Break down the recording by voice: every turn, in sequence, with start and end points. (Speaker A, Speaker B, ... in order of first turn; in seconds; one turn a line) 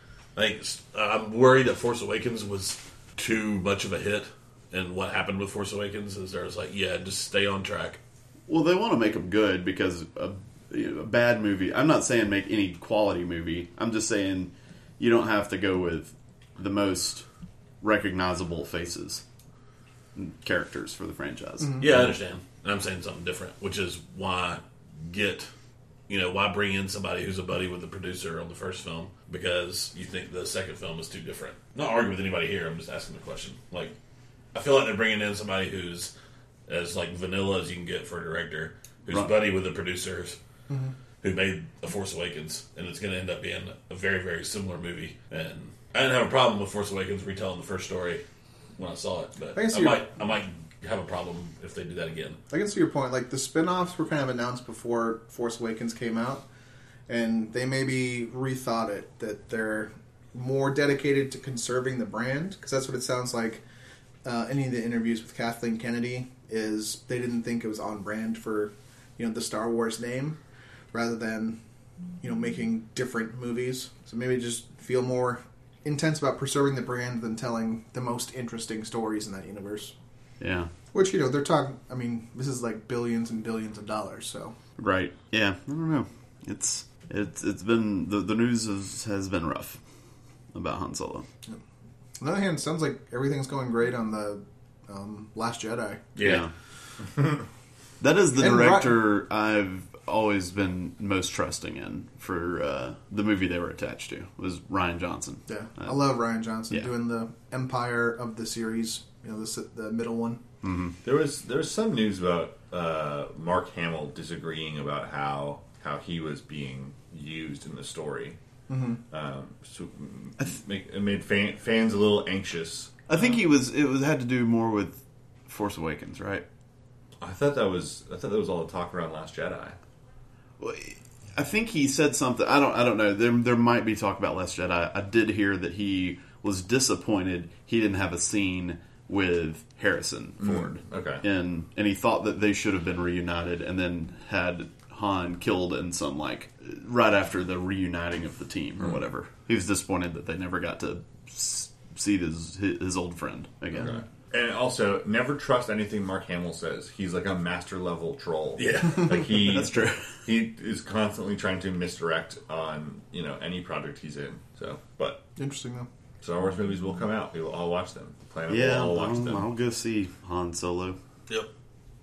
Speaker A: 0.3-8.0
Speaker B: 8.5-17.2
Speaker B: 17.8-19.2
Speaker B: 20.1-21.8
Speaker A: 21.8-25.5
Speaker A: 26.1-33.9
Speaker A: 34.5-36.1
Speaker A: 36.7-40.4
Speaker A: 41.2-48.2
Speaker A: 48.8-52.4
Speaker C: 49.5-50.0
Speaker C: 52.5-56.4
Speaker C: 57.1-63.6
Speaker C: 64.2-70.4
Speaker C: 70.9-71.6
Speaker C: 72.2-79.9
Speaker B: 80.4-80.7
Speaker C: 80.9-84.5
Speaker B: 84.8-89.8
Speaker B: 90.5-91.2
Speaker C: 92.2-96.0
Speaker A: 96.2-96.4
Speaker B: 96.2-96.5
Speaker B: 98.0-106.0
Speaker C: 98.3-99.1
Speaker C: 105.5-110.4
Speaker B: 110.6-110.9
Speaker D: 111.0-118.4
Speaker C: 118.7-119.0
Speaker D: 119.1-122.9
Speaker B: 123.1-126.4
Speaker D: 127.2-129.8
Speaker B: 130.6-154.0
Speaker D: 140.4-141.2
Speaker D: 153.8-165.2
Speaker A: 158.6-159.3
Speaker B: 159.2-160.2
Speaker C: 165.3-165.9
Speaker D: 166.2-169.5
Speaker B: 168.5-171.0